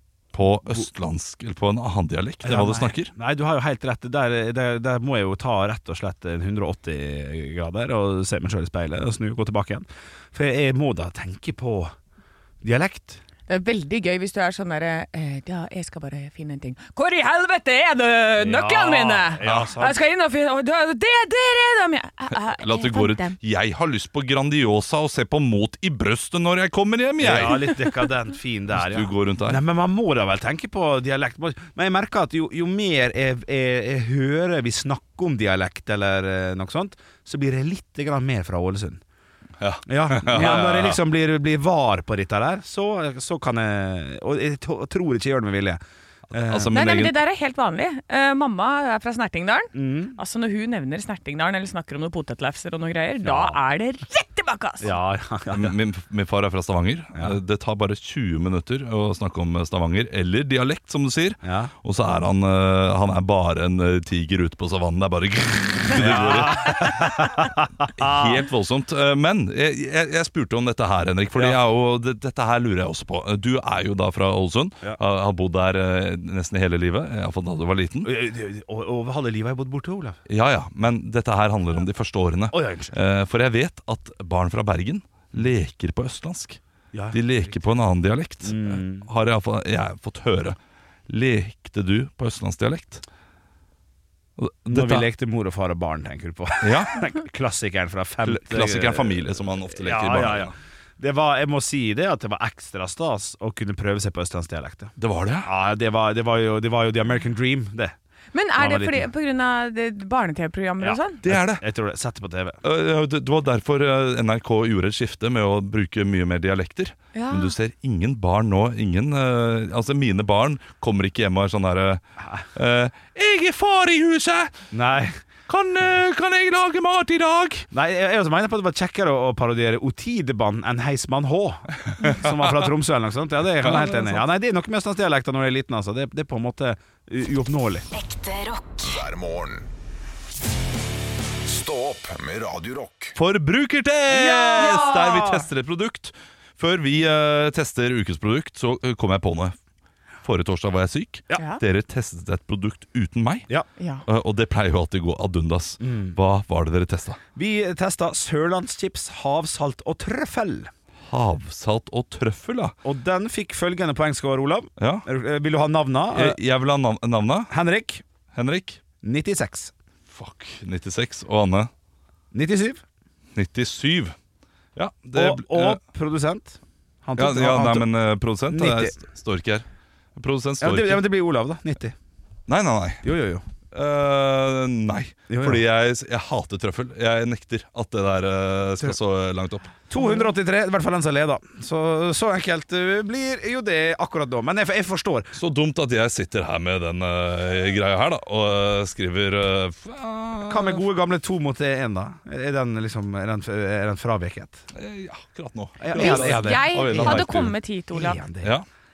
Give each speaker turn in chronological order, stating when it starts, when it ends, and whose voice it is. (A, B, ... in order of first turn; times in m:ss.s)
0:00.3-0:03.1 A
0:02.4-0:11.9 B
0:12.6-0:13.2 B
0:13.5-0:23.4 C
0:18.4-0:20.0 B
0:19.4-0:19.8 A
0:22.6-0:27.7 A
0:27.2-0:39.0 B
0:28.7-0:29.6 A
0:39.6-0:41.0 A
0:39.9-0:46.7 B
0:46.3-0:47.1 A
0:46.7-0:54.9 C
0:49.7-0:50.2 B
0:53.2-0:53.6 B
0:54.8-0:55.7 B
0:55.5-1:07.3 A
1:01.4-1:01.7 B
1:05.9-1:08.4 B
1:07.9-1:18.1 A
1:11.3-1:11.6 B
1:18.0-1:20.2 B
1:20.3-1:26.6 A
1:22.5-1:23.0 B
1:26.9-1:27.6 B
1:27.1-1:30.6 A
1:28.4-1:29.1 B
1:31.1-1:33.0 A
1:34.4-1:35.1 A
1:34.7-1:47.9 B
1:36.6-1:37.0 A
1:38.2-1:40.5 A
1:45.0-1:45.5 A
1:48.3-1:51.2 C
1:48.6-1:49.1 B
1:50.8-1:52.6 B
1:51.2-1:51.6 A
1:52.6-2:02.0 A
1:57.1-1:57.5 C
2:02.5-2:04.6 A
2:04.7-2:05.2 B
2:05.5-2:07.7 A
2:07.7-2:17.9 B
2:12.0-2:12.5 A
2:13.6-2:14.2 A
2:18.0-2:19.7 D
2:21.4-2:23.2 D
2:23.2-2:29.6 A
2:24.1-2:25.5 B
2:30.2-2:33.5 A
2:33.8-2:34.0 C
2:34.0-2:37.2 A
2:35.8-2:36.2 B
2:37.4-2:40.7 B
2:41.1-2:42.7 A
2:42.8-2:46.4 B
2:44.8-2:45.0 A
2:46.1-2:47.5 A
2:47.5-2:48.0 B
2:48.3-2:48.8 A
2:49.0-2:49.7 B
2:50.1-2:51.7 A
2:52.3-2:52.8 B
2:53.3-2:54.1 A
2:54.8-2:55.8 A
2:55.1-2:57.9 B
2:57.2-2:59.6 A
2:58.5-2:58.9 B
3:00.2-3:01.0 A
3:00.6-3:01.9 B
3:02.5-3:03.1 A
3:03.0-3:03.4 B
3:03.7-3:09.8 A
3:05.3-3:05.6 B
3:09.9-3:15.3 B
3:15.3-3:20.8 A
3:20.5-3:24.6 B
3:24.7-3:27.6 A
3:25.8-3:28.6 B
3:25.9-3:28.2 C